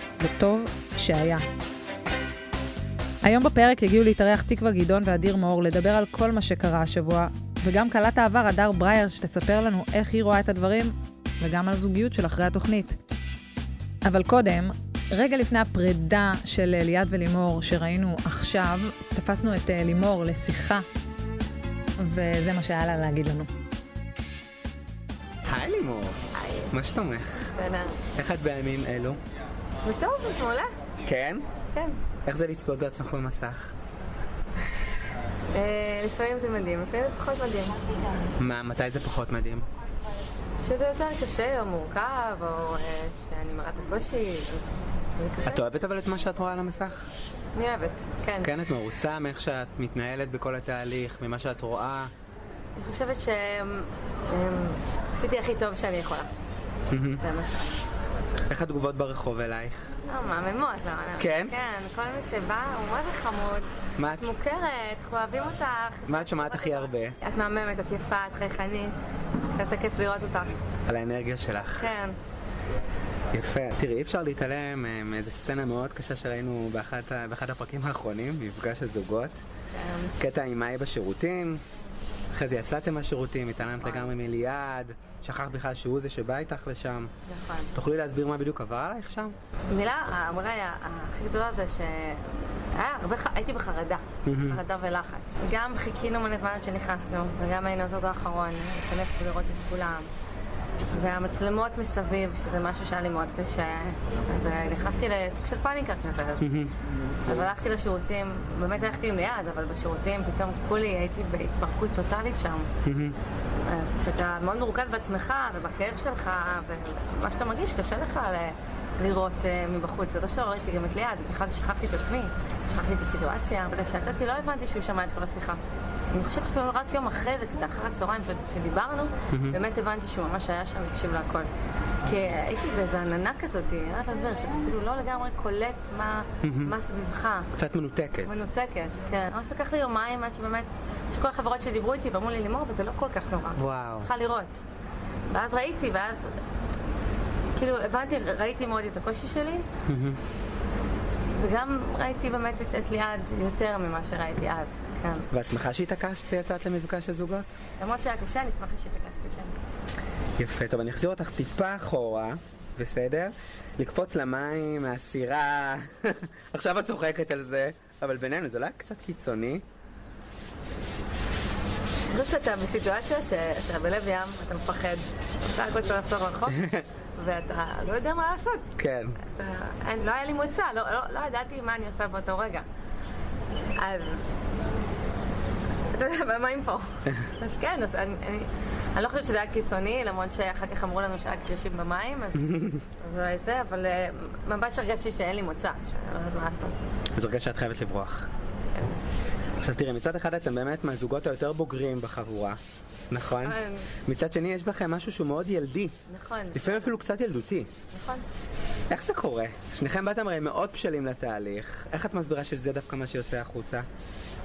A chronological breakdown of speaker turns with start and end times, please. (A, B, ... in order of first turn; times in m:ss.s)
0:00.2-0:01.4 A
0:03.2-0:13.0 A
0:14.0-0:20.8 A
0:22.0-0:23.5 A
0:25.4-0:26.2 B
0:26.4-0:26.7 C
0:26.7-0:27.4 B
0:27.5-0:28.0 C
0:28.1-0:29.2 B
0:29.8-0:30.7 C
0:31.0-0:31.4 B
0:31.7-0:32.0 C
0:32.2-0:33.7 B
0:35.5-0:38.2 C
0:38.4-0:39.6 B
0:40.6-0:45.6 C
0:45.4-0:47.0 B
0:47.5-0:48.5 C
0:48.4-0:52.1 B
0:52.8-0:56.3 C
0:56.9-0:57.2 B
0:57.2-0:57.8 C
0:58.5-0:59.8 B
1:00.1-1:09.0 C
1:01.2-1:01.5 B
1:04.0-1:04.3 B
1:06.1-1:07.1 B
1:09.5-1:10.6 C
1:10.9-1:11.9 B
1:11.7-1:12.2 C
1:13.3-1:19.4 B
1:19.7-1:20.1 C
1:20.2-1:21.6 B
1:22.3-1:27.1 B
1:27.3-1:27.7 C
1:27.7-1:29.3 B
1:29.7-1:40.1 C
1:34.2-1:34.6 B
1:40.9-1:46.5 C
1:46.4-1:47.2 B
1:47.2-1:52.7 C
1:52.8-1:53.1 B
1:53.6-2:05.6 C
2:06.1-2:11.5 C
2:09.3-2:09.6 B
2:12.0-2:17.5 C
2:16.4-2:16.7 B
2:17.6-2:18.4 B
2:18.2-2:24.5 C
2:23.6-2:24.1 B
2:25.3-2:26.3 C
2:27.6-2:29.7 C
2:29.9-2:30.2 B
2:31.4-2:35.3 C
2:35.3-2:37.5 B
2:37.8-2:39.6 C
2:40.4-2:49.6 B
2:52.1-2:56.6 C
2:56.5-2:56.8 B
2:57.2-2:58.7 C
2:58.8-2:59.1 B
2:59.2-3:02.6 C
3:03.8-3:04.3 C
3:05.9-3:06.9 C
3:07.4-3:16.8 C
3:12.4-3:12.8 B
3:17.2-3:18.3 B
3:18.7-3:19.0 C
3:19.6-3:22.6 B
3:23.1-3:25.9 B
3:23.4-3:23.8 C
3:26.1-3:27.0 C
3:26.5-3:27.7 B
3:27.9-3:28.2 C
3:28.9-3:33.8 B